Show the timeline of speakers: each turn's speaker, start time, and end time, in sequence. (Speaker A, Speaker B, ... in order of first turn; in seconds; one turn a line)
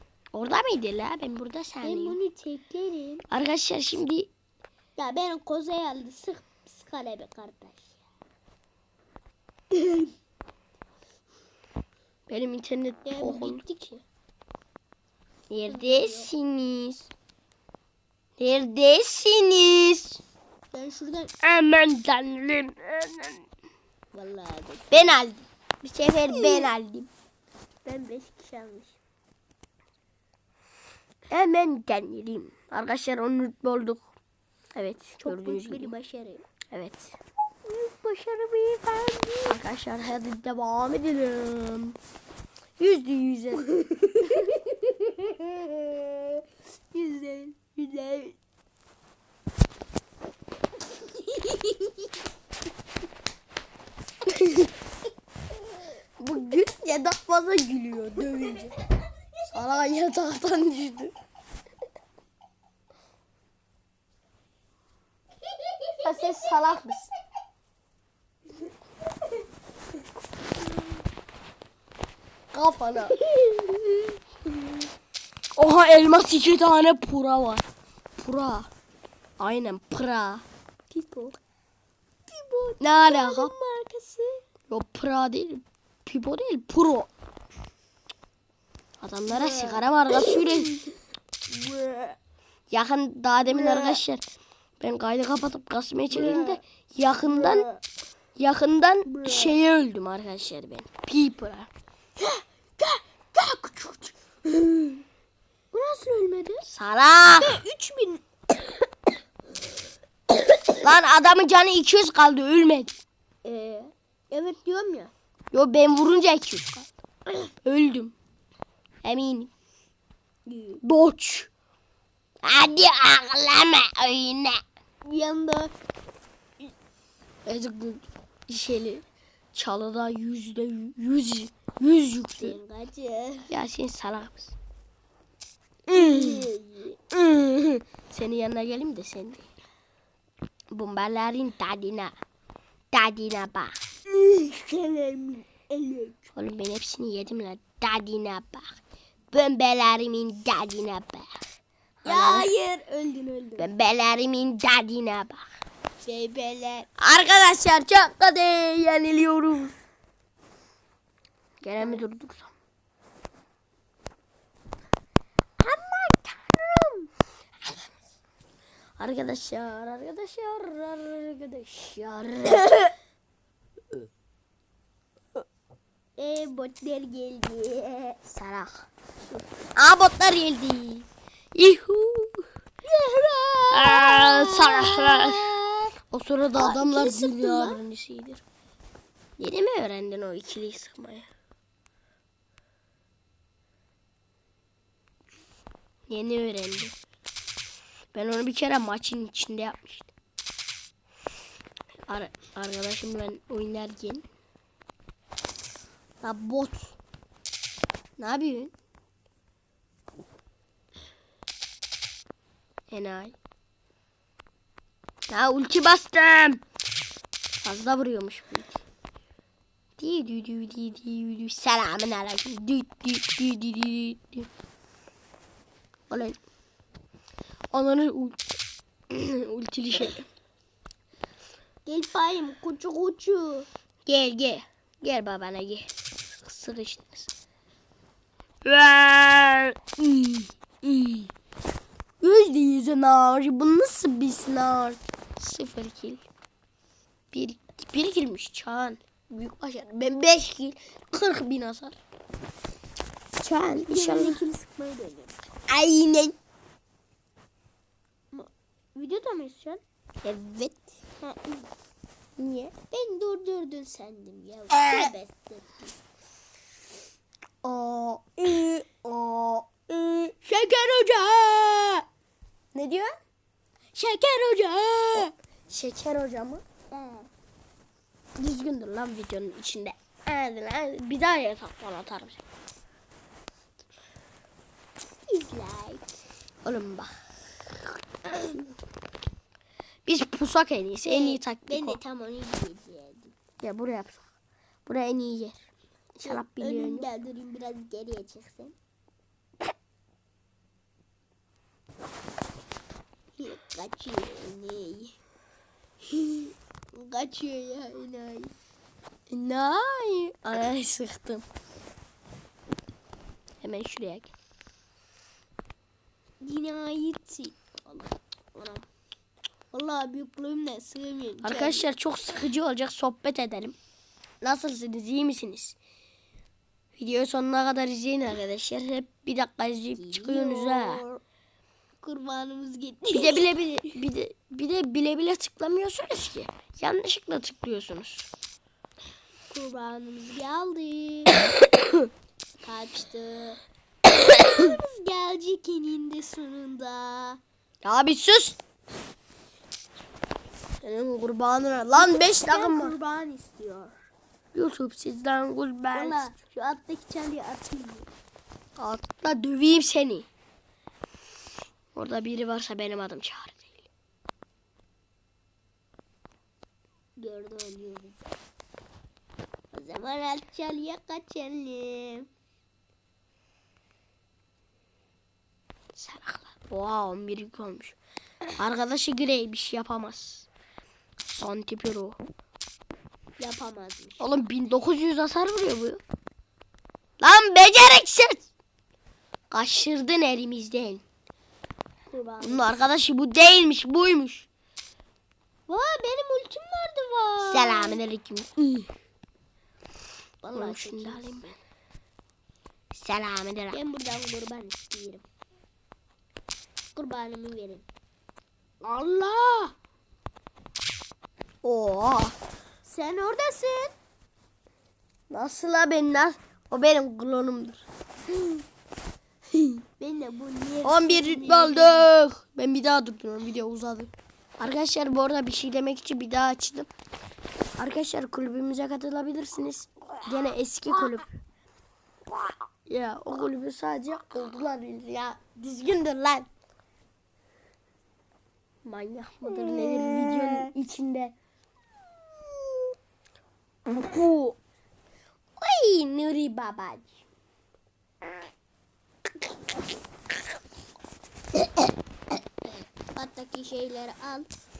Speaker A: 0.3-2.2
Speaker B: 1.8-3.3
Speaker A: 3.3-4.3
Speaker B: 5.0-8.0
Speaker B: 9.7-10.1
Speaker A: 12.3-13.6
Speaker B: 13.1-14.0
Speaker A: 15.5-17.1
Speaker B: 15.7-16.3
Speaker A: 18.4-20.2
Speaker B: 20.7-21.3
Speaker A: 21.4-23.4
Speaker B: 24.1-25.2
Speaker A: 24.9-27.1
Speaker B: 26.3-26.7
Speaker B: 27.9-29.0
Speaker A: 31.3-34.1
Speaker A: 34.8-35.9
Speaker B: 35.2-36.5
Speaker A: 36.7-37.2
Speaker B: 37.6-39.6
Speaker A: 39.5-42.0
Speaker A: 42.8-43.7
Speaker B: 43.7-48.4
Speaker B: 50.9-52.1
Speaker A: 54.3-54.7
Speaker A: 56.2-58.8
Speaker A: 59.5-61.1
Speaker B: 65.5-66.8
Speaker A: 66.0-67.1
Speaker A: 72.5-73.2
Speaker B: 73.0-74.6
Speaker A: 75.6-77.6
Speaker A: 78.2-78.7
Speaker A: 79.4-80.5
Speaker B: 80.9-81.4
Speaker B: 82.3-84.4
Speaker A: 82.8-83.5
Speaker A: 84.7-87.1
Speaker A: 89.0-90.8
Speaker B: 89.3-92.2
Speaker A: 92.7-94.2
Speaker B: 93.5-94.0
Speaker A: 94.8-97.7
Speaker B: 96.1-96.6
Speaker B: 97.2-97.8
Speaker A: 98.4-101.7
Speaker B: 99.1-99.6
Speaker B: 102.2-105.0
Speaker B: 105.7-106.7
Speaker A: 106.7-107.6
Speaker B: 107.4-108.7
Speaker A: 110.8-113.0
Speaker B: 113.4-115.1
Speaker A: 115.5-116.9
Speaker A: 117.6-118.2
Speaker A: 119.0-119.5
Speaker B: 120.5-120.8
Speaker A: 120.8-121.5
Speaker A: 122.4-124.6
Speaker B: 125.0-125.7
Speaker A: 127.5-132.6
Speaker B: 132.4-133.5
Speaker A: 133.5-134.6
Speaker A: 135.9-136.5
Speaker B: 135.9-137.0
Speaker A: 137.1-139.5
Speaker A: 140.7-142.2
Speaker A: 142.9-143.8
Speaker B: 144.1-146.2
Speaker A: 146.3-148.8
Speaker A: 149.3-151.3
Speaker B: 152.0-153.7
Speaker A: 152.1-152.5
Speaker A: 153.6-155.4
Speaker B: 156.0-156.9
Speaker A: 157.0-159.8
Speaker A: 161.6-162.5
Speaker B: 161.8-162.0
Speaker B: 165.6-167.1
Speaker A: 169.0-172.9
Speaker B: 176.2-178.2
Speaker A: 178.3-178.9
Speaker A: 179.8-182.5
Speaker B: 182.8-186.0
Speaker A: 183.7-185.5
Speaker A: 186.1-188.4
Speaker B: 186.6-187.8
Speaker A: 189.4-191.3
Speaker A: 196.1-196.9
Speaker A: 198.1-200.1
Speaker A: 202.1-204.2
Speaker A: 206.2-206.9
Speaker A: 208.2-208.7
Speaker A: 212.9-213.3
Speaker A: 215.3-216.6
Speaker A: 217.6-218.8
Speaker A: 220.0-224.5
Speaker A: 226.1-226.4
Speaker A: 227.7-228.4
Speaker A: 229.1-230.3
Speaker B: 231.8-233.7
Speaker A: 234.1-235.9
Speaker A: 236.4-237.3
Speaker A: 238.7-241.3
Speaker A: 242.2-246.2
Speaker A: 247.3-252.0
Speaker A: 253.4-254.4
Speaker B: 253.7-255.4
Speaker A: 255.7-256.4
Speaker B: 258.3-259.8
Speaker A: 260.2-260.8
Speaker B: 261.2-261.7
Speaker A: 262.4-262.7
Speaker B: 262.9-266.0
Speaker A: 264.7-265.1
Speaker A: 267.6-270.4
Speaker B: 270.4-272.1
Speaker A: 272.7-273.1
Speaker B: 273.9-275.3
Speaker A: 275.1-276.6
Speaker B: 276.9-277.3
Speaker A: 278.4-282.4
Speaker B: 285.3-286.2
Speaker A: 286.6-287.1
Speaker A: 288.3-288.6
Speaker A: 290.1-292.0
Speaker B: 291.1-293.4
Speaker A: 293.6-294.2
Speaker A: 294.9-295.6
Speaker B: 296.2-298.8
Speaker A: 296.2-297.1
Speaker B: 303.4-305.2
Speaker B: 306.1-308.5
Speaker A: 309.3-311.5
Speaker A: 313.6-314.3
Speaker B: 316.4-318.9
Speaker B: 319.7-321.9
Speaker A: 321.4-323.8
Speaker A: 324.4-325.8
Speaker A: 327.0-331.0
Speaker B: 329.9-331.2
Speaker B: 332.0-333.9
Speaker A: 333.1-338.3
Speaker B: 339.5-341.4
Speaker A: 341.8-342.1
Speaker B: 342.6-347.4
Speaker A: 347.8-348.6
Speaker A: 350.8-353.0
Speaker B: 351.9-354.0
Speaker A: 354.5-356.3
Speaker B: 355.9-358.1
Speaker A: 358.8-360.3
Speaker A: 361.9-363.9
Speaker B: 367.2-368.4
Speaker B: 369.7-372.3
Speaker A: 375.9-378.0
Speaker A: 378.6-380.5
Speaker A: 381.3-382.2
Speaker B: 383.4-384.3
Speaker A: 384.2-386.0
Speaker A: 387.2-388.5
Speaker A: 389.5-391.0
Speaker B: 392.1-392.7
Speaker A: 392.4-394.5
Speaker B: 395.7-398.0
Speaker A: 397.4-398.9
Speaker B: 400.4-401.4
Speaker A: 400.6-401.6
Speaker A: 402.9-403.8
Speaker B: 403.7-405.2
Speaker B: 406.9-407.9
Speaker B: 408.8-409.7
Speaker A: 411.6-412.4
Speaker B: 412.8-414.0
Speaker A: 415.3-417.8
Speaker B: 420.0-422.1
Speaker A: 420.8-426.9
Speaker A: 427.8-431.3
Speaker A: 432.9-436.5
Speaker A: 438.9-441.4
Speaker A: 443.9-444.6
Speaker A: 445.6-447.2
Speaker B: 453.1-454.5